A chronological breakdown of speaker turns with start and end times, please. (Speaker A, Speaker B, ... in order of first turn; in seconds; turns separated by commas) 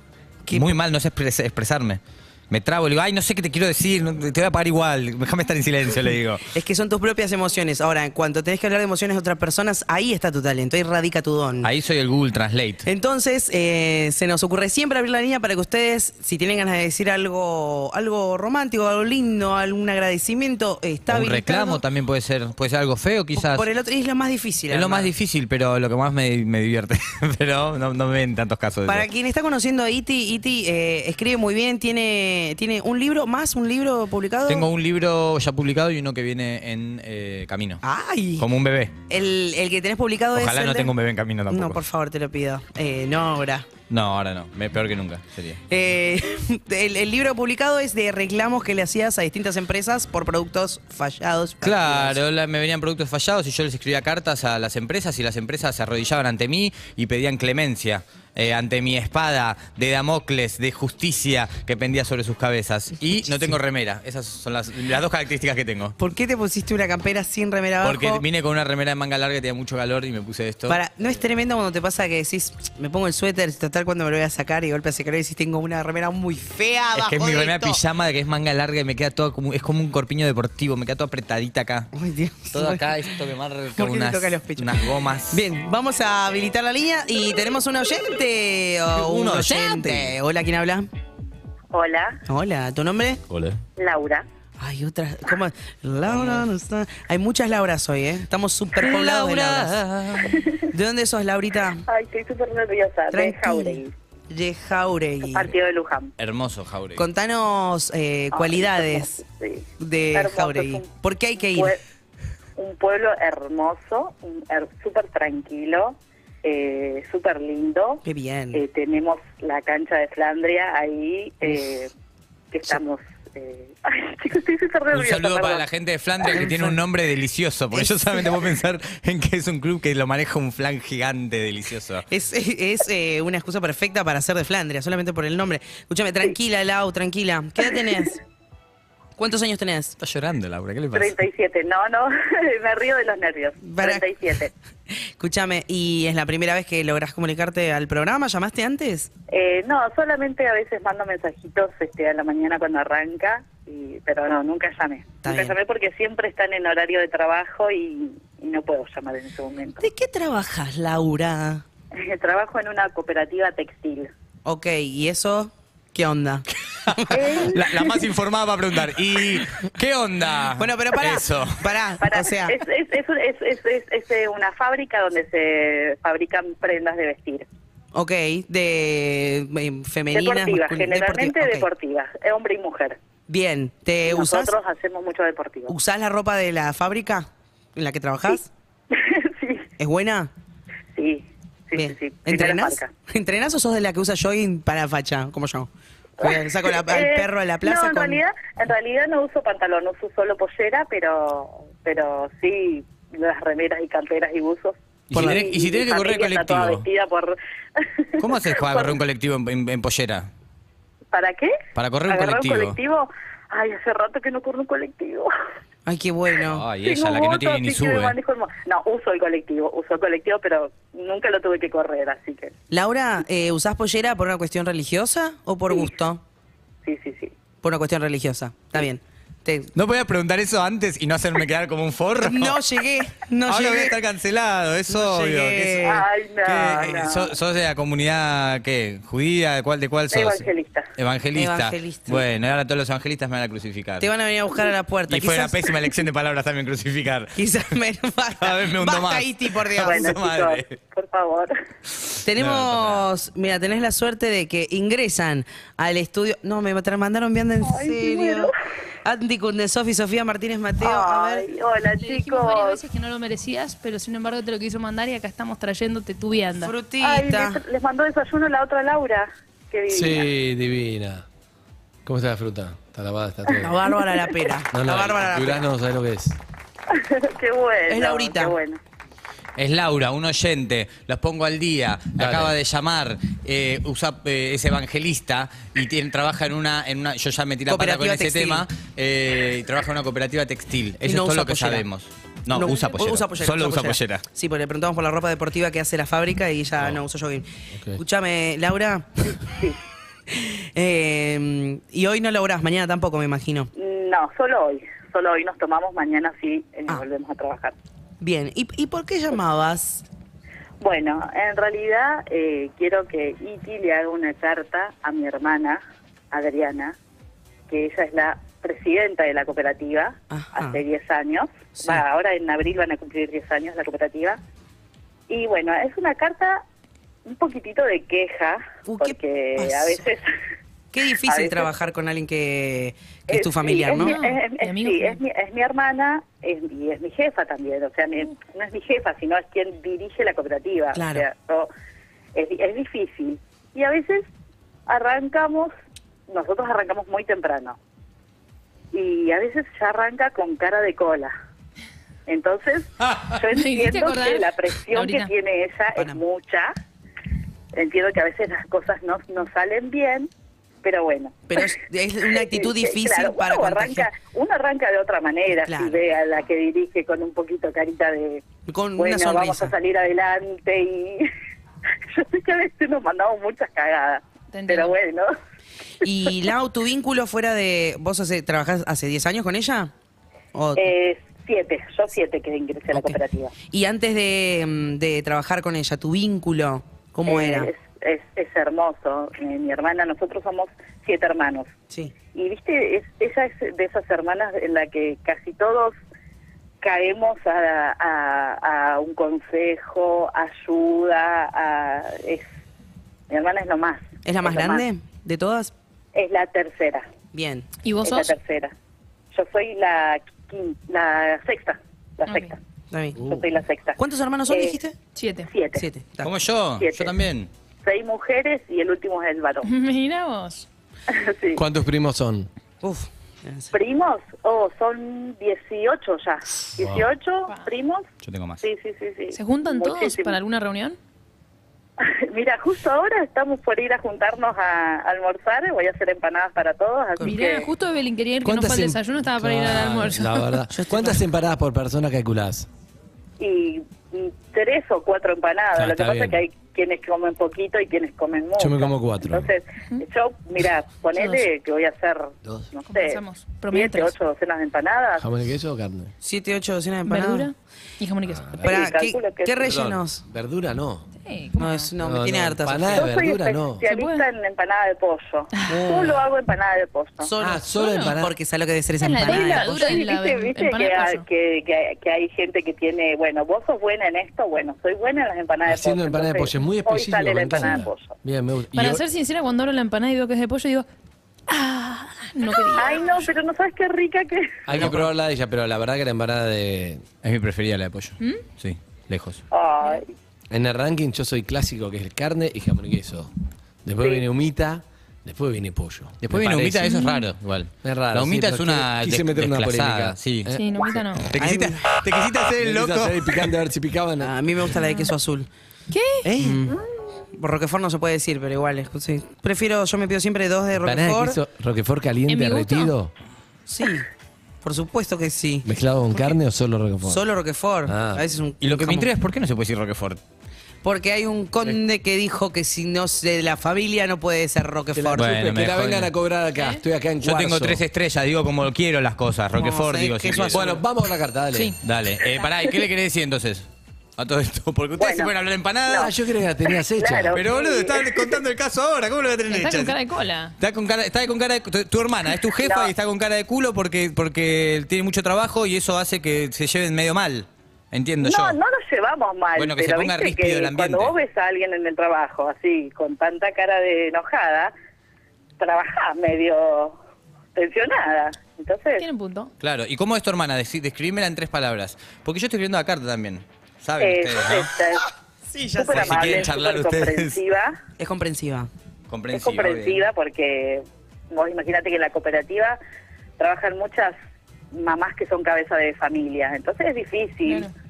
Speaker A: 0.5-0.7, Speaker B: 0.5-6.4, Speaker A: 6.5-11.7, Speaker B: 11.6-12.8, Speaker A: 12.8-21.8, Speaker B: 21.1-23.7, Speaker A: 23.3-25.1, Speaker B: 24.7-29.1, Speaker A: 28.9-34.7, Speaker B: 34.5-37.8, Speaker A: 37.8-38.5, Speaker B: 38.4-38.9, Speaker A: 39.1-40.9, Speaker B: 40.3-41.8, Speaker A: 41.5-43.6, Speaker B: 43.9-45.6, Speaker A: 45.7-52.2, Speaker B: 51.6-65.9, Speaker A: 66.0-68.2, Speaker B: 67.8-70.8, Speaker A: 70.7-77.8, Speaker B: 76.9-81.9, Speaker A: 81.9-83.0, Speaker B: 82.5-85.4, Speaker A: 83.8-84.8, Speaker A: 85.3-90.9, Speaker B: 88.9-90.2, Speaker C: 91.7-92.2, Speaker A: 92.3-93.2, Speaker C: 93.8-94.2, Speaker A: 94.6-99.8, Speaker B: 96.1-96.5, Speaker B: 98.7-100.5, Speaker C: 100.2-100.6, Speaker A: 100.7-101.8, Speaker C: 101.9-103.9, Speaker A: 103.1-105.5, Speaker C: 105.3-106.1, Speaker B: 106.2-107.0, Speaker A: 107.0-109.2, Speaker C: 108.3-110.9, Speaker A: 109.8-111.7, Speaker C: 111.5-111.8, Speaker C: 112.6-118.0, Speaker A: 118.0-118.6, Speaker C: 118.5-121.9, Speaker C: 122.5-125.6, Speaker B: 124.9-132.1, Speaker A: 126.3-126.8, Speaker A: 127.7-128.4, Speaker A: 132.1-138.2, Speaker A: 139.2-139.9, Speaker B: 140.0-141.2, Speaker C: 140.9-144.5, Speaker A: 143.6-144.1, Speaker A: 144.9-149.1, Speaker C: 149.3-159.8, Speaker A: 155.2-155.6, Speaker A: 159.8-161.6, Speaker C: 161.9-164.1, Speaker A: 164.4-167.4, Speaker B: 166.9-171.7, Speaker C: 167.1-167.7, Speaker A: 170.6-172.6, Speaker C: 172.0-177.4, Speaker A: 177.9-181.7, Speaker C: 180.1-183.0, Speaker A: 183.3-184.5, Speaker C: 184.1-185.7, Speaker A: 185.7-188.5, Speaker C: 188.9-189.7, Speaker A: 189.8-190.3, Speaker C: 190.9-192.9, Speaker A: 191.7-195.7, Speaker A: 196.2-198.2, Speaker C: 196.2-209.0, Speaker B: 205.1-206.8, Speaker A: 205.1-205.4, Speaker B: 208.2-210.3, Speaker C: 211.1-211.5, Speaker B: 211.7-212.8, Speaker C: 212.1-215.3, Speaker A: 215.9-216.7, Speaker B: 216.5-218.1, Speaker C: 216.8-222.5, Speaker A: 222.7-226.2, Speaker C: 226.8-227.3, Speaker A: 227.6-229.7, Speaker B: 229.7-232.7, Speaker A: 232.2-233.9, Speaker B: 233.4-235.8, Speaker A: 234.9-236.1, Speaker C: 235.8-237.3, Speaker B: 236.4-244.1, Speaker C: 240.1-240.9, Speaker A: 241.3-242.2, Speaker A: 244.0-245.9, Speaker B: 245.1-247.4, Speaker A: 247.3-250.1, Speaker B: 248.4-250.8, Speaker C: 249.8-251.5, Speaker B: 252.2-253.1, Speaker A: 252.2-258.5, Speaker C: 257.6-258.5, Speaker A: 259.0-261.4, Speaker C: 260.8-262.8, Speaker D: 262.0-266.7, Speaker A: 266.5-267.6, Speaker C: 267.0-270.3, Speaker E: 269.9-271.2, Speaker E: 272.1-273.8, Speaker A: 273.6-275.6, Speaker E: 274.7-276.4, Speaker C: 276.9-278.8, Speaker A: 277.9-278.6, Speaker B: 279.6-294.2, Speaker E: 282.2-282.5, Speaker A: 287.7-288.6, Speaker A: 291.0-291.9, Speaker A: 292.5-297.4, Speaker A: 298.0-299.4, Speaker A: 300.3-303.7, Speaker C: 303.8-307.7, Speaker A: 308.2-310.0, Speaker C: 310.8-315.8, Speaker C: 316.3-316.9, Speaker C: 317.7-324.4, Speaker A: 320.3-320.8, Speaker A: 321.8-322.0, Speaker C: 325.3-326.6, Speaker C: 327.2-330.3, Speaker A: 328.9-330.1, Speaker A: 330.9-334.2, Speaker C: 331.2-331.7, Speaker C: 333.3-341.7, Speaker D: 333.9-335.2, Speaker A: 340.9-341.2, Speaker C: 342.3-344.3, Speaker C: 344.9-345.7, Speaker C: 346.3-347.8, Speaker C: 348.9-351.3, Speaker C: 352.3-356.7, Speaker D: 353.5-355.3, Speaker A: 356.0-356.2, Speaker C: 357.7-360.3, Speaker C: 360.8-361.4, Speaker A: 361.5-364.1, Speaker C: 362.3-368.4, Speaker A: 365.6-366.0, Speaker A: 368.7-369.7, Speaker C: 369.0-371.2, Speaker C: 372.1-375.3, Speaker D: 374.5-374.9, Speaker A: 376.0-379.9, Speaker A: 380.5-380.9, Speaker C: 380.8-383.5, Speaker A: 382.9-383.2, Speaker A: 383.7-387.7, Speaker C: 387.3-391.7, Speaker C: 392.3-395.9, Speaker C: 396.8-402.4, Speaker C: 403.3-404.9, Speaker A: 404.2-405.7, Speaker C: 406.1-407.0, Speaker A: 407.3-407.6, Speaker D: 407.8-408.3, Speaker C: 408.0-408.7, Speaker C: 409.3-412.6, Speaker D: 412.2-412.6, Speaker A: 412.9-413.4, Speaker C: 413.2-414.8, Speaker A: 414.0-414.9, Speaker D: 415.1-415.5, Speaker C: 415.4-415.8, Speaker A: 415.7-416.3, Speaker B: 416.2-417.5, Speaker C: 416.8-417.1, Speaker C: 417.8-419.7, Speaker D: 419.6-420.7, Speaker C: 421.1-421.6, Speaker E: 421.5-422.5, Speaker A: 422.8-423.7, Speaker C: 423.7-428.1, Speaker E: 426.8-427.1, Speaker B: 428.2-428.6, Speaker C: 428.6-430.4, Speaker D: 429.3-431.0, Speaker C: 432.0-437.7, Speaker D: 437.2-440.6, Speaker E: 438.4-442.7, Speaker A: 440.7-441.1, Speaker C: 443.4-453.2, Speaker E: 445.7-446.4, Speaker E: 448.6-449.5, Speaker D: 451.1-451.5, Speaker D: 452.8-454.1, Speaker C: 453.7-455.2, Speaker E: 455.2-456.1, Speaker A: 456.2-457.5, Speaker D: 457.1-458.8, Speaker E: 458.2-458.6, Speaker C: 458.6-459.8, Speaker A: 458.6-460.2, Speaker E: 459.6-461.1, Speaker D: 461.2-461.9, Speaker A: 461.6-463.1, Speaker E: 462.0-463.8, Speaker C: 462.9-467.3, Speaker D: 463.8-464.3, Speaker D: 465.5-465.9, Speaker A: 465.7-466.2, Speaker A: 467.2-469.8, Speaker E: 467.4-468.3, Speaker D: 467.7-468.1, Speaker D: 469.0-471.2, Speaker C: 469.3-478.1, Speaker E: 475.6-479.0, Speaker D: 478.7-480.9, Speaker D: 481.5-483.3, Speaker C: 482.7-484.5, Speaker E: 484.6-487.0, Speaker B: 484.7-485.1, Speaker B: 487.2-489.4, Speaker C: 489.5-490.1, Speaker E: 490.5-493.3, Speaker E: 493.8-496.9, Speaker C: 494.0-494.2, Speaker B: 496.3-500.5, Speaker D: 496.8-497.3, Speaker E: 497.8-501.0, Speaker D: 500.5-501.3, Speaker B: 501.3-503.5, Speaker A: 501.4-501.9, Speaker E: 502.6-504.3, Speaker A: 504.2-505.5, Speaker D: 504.7-505.1, Speaker D: 505.9-506.3, Speaker E: 506.2-506.6, Speaker A: 506.4-506.8, Speaker A: 507.4-511.4, Speaker E: 510.8-513.1, Speaker D: 512.3-512.9, Speaker A: 513.7-514.1, Speaker A: 514.6-515.6, Speaker E: 515.6-517.2, Speaker A: 517.0-519.1, Speaker E: 517.9-518.2, Speaker B: 518.6-520.2, Speaker A: 520.8-525.3, Speaker E: 524.9-527.8, Speaker B: 525.1-526.1, Speaker D: 526.5-526.8, Speaker B: 527.2-530.8, Speaker A: 529.5-530.8, Speaker E: 530.5-531.7, Speaker B: 531.8-536.1, Speaker C: 535.0-535.3, Speaker C: 535.9-536.1, Speaker E: 535.9-537.4, Speaker C: 536.7-538.4, Speaker B: 537.3-540.0, Speaker D: 539.5-540.5, Speaker B: 540.6-548.6, Speaker C: 542.6-542.9, Speaker C: 548.2-554.7, Speaker B: 549.5-551.1, Speaker C: 555.6-557.0, Speaker C: 557.5-559.0, Speaker D: 559.0-559.5, Speaker B: 559.6-564.7, Speaker C: 564.0-565.1, Speaker A: 565.5-566.5, Speaker C: 565.7-567.8, Speaker B: 565.9-567.4, Speaker A: 568.0-568.7, Speaker B: 569.1-570.0, Speaker C: 569.3-572.8, Speaker C: 573.4-574.1, Speaker C: 574.7-577.7, Speaker D: 577.5-577.7